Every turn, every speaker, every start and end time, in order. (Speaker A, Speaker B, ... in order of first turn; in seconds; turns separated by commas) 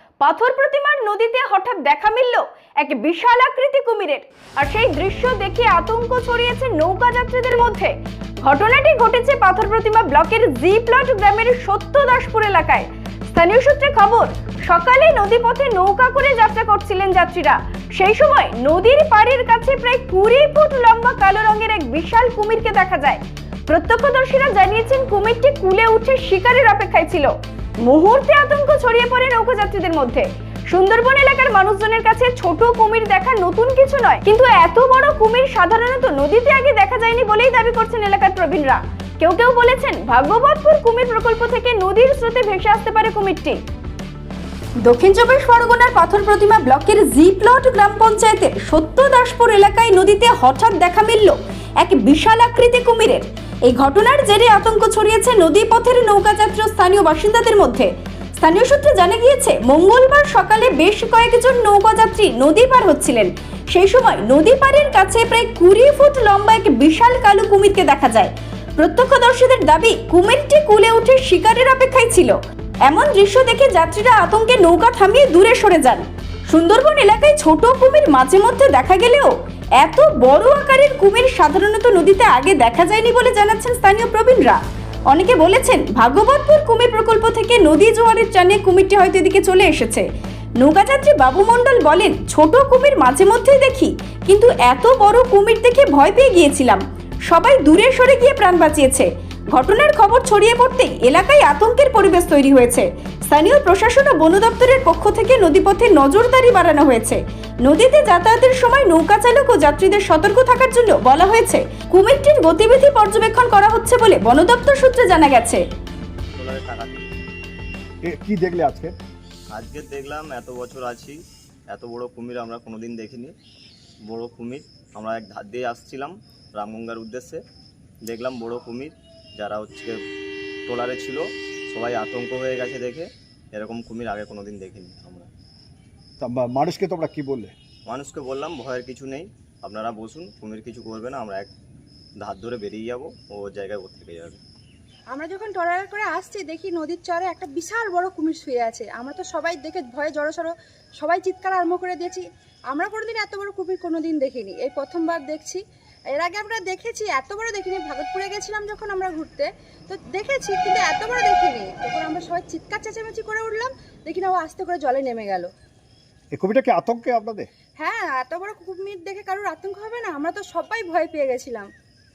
Speaker A: 0.2-43.6, Speaker A: 44.8-90.1, Speaker A: 90.6-115.6, Speaker B: 116.3-117.1, Speaker C: 118.0-118.9, Speaker B: 119.5-123.3, Speaker B: 124.0-127.4, Speaker B: 128.0-130.0, Speaker B: 130.7-135.3, Speaker C: 136.2-137.5, Speaker B: 137.9-141.5, Speaker B: 142.2-144.4, Speaker D: 145.1-155.6, Speaker D: 156.1-165.5, Speaker C: 166.3-167.5, Speaker D: 167.8-171.7